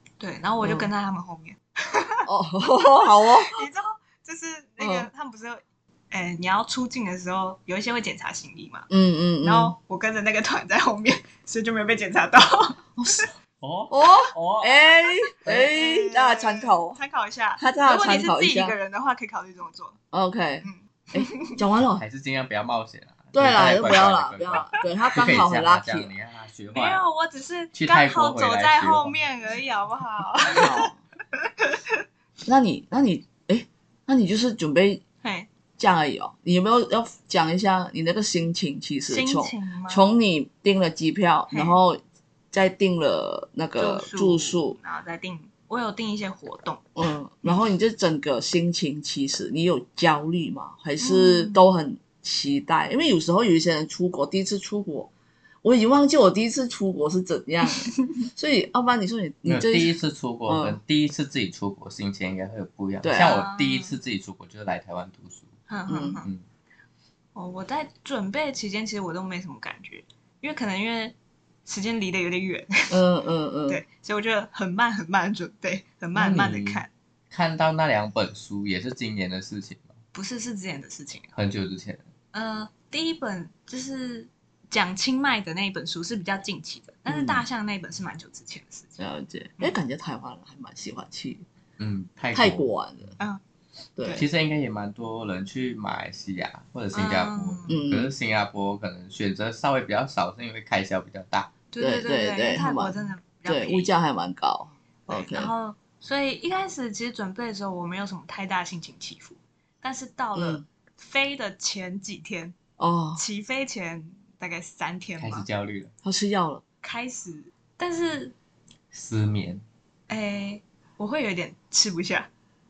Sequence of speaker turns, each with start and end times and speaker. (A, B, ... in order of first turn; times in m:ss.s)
0:00.2-0:02.3 A
0:00.6-0:00.9 B
0:02.3-0:03.6 B
0:02.8-0:08.9 A
0:04.8-0:05.1 B
0:08.9-0:09.8 B
0:09.4-0:13.3 A
0:13.0-0:13.3 B
0:13.6-0:14.8 C
0:13.9-0:17.0 B
0:15.5-0:20.0 A
0:17.6-0:18.8 B
0:20.1-0:22.0 B
0:20.6-0:21.6 A
0:22.0-0:27.0 C
0:23.3-0:26.1 B
0:26.7-0:30.9 A
0:27.7-0:29.2 C
0:30.5-0:31.0 B
0:32.5-0:35.0 B
0:35.2-0:35.5 A
0:35.8-0:42.0 B
0:39.1-0:40.0 A
0:41.5-0:41.8 A
0:42.5-0:44.8 B
0:43.8-0:46.8 A
0:47.0-0:55.1 B
0:51.0-0:51.6 A
0:55.6-0:59.9 B
0:59.5-1:05.5 C
1:00.5-1:00.8 B
1:03.0-1:03.4 B
1:03.2-1:04.0 A
1:05.7-1:06.3 A
1:05.9-1:06.2 B
1:07.4-1:13.0 A
1:12.9-1:13.8 B
1:13.7-1:16.9 A
1:16.2-1:19.9 C
1:20.1-1:21.3 A
1:21.4-1:22.0 C
1:22.3-1:29.0 A
1:27.1-1:27.4 B
1:29.0-1:31.4 B
1:31.8-1:33.1 C
1:32.3-1:33.2 B
1:34.0-1:34.2 B
1:34.2-1:41.5 C
1:36.9-1:37.8 A
1:37.7-1:38.1 B
1:41.7-1:43.9 A
1:41.8-1:45.5 B
1:45.1-1:52.6 A
1:50.4-1:50.7 B
1:52.8-1:53.2 B
1:53.2-1:55.5 A
1:55.2-1:55.9 C
1:56.0-1:56.6 B
1:56.8-1:58.4 A
1:58.9-1:59.6 C
2:00.1-2:02.3 A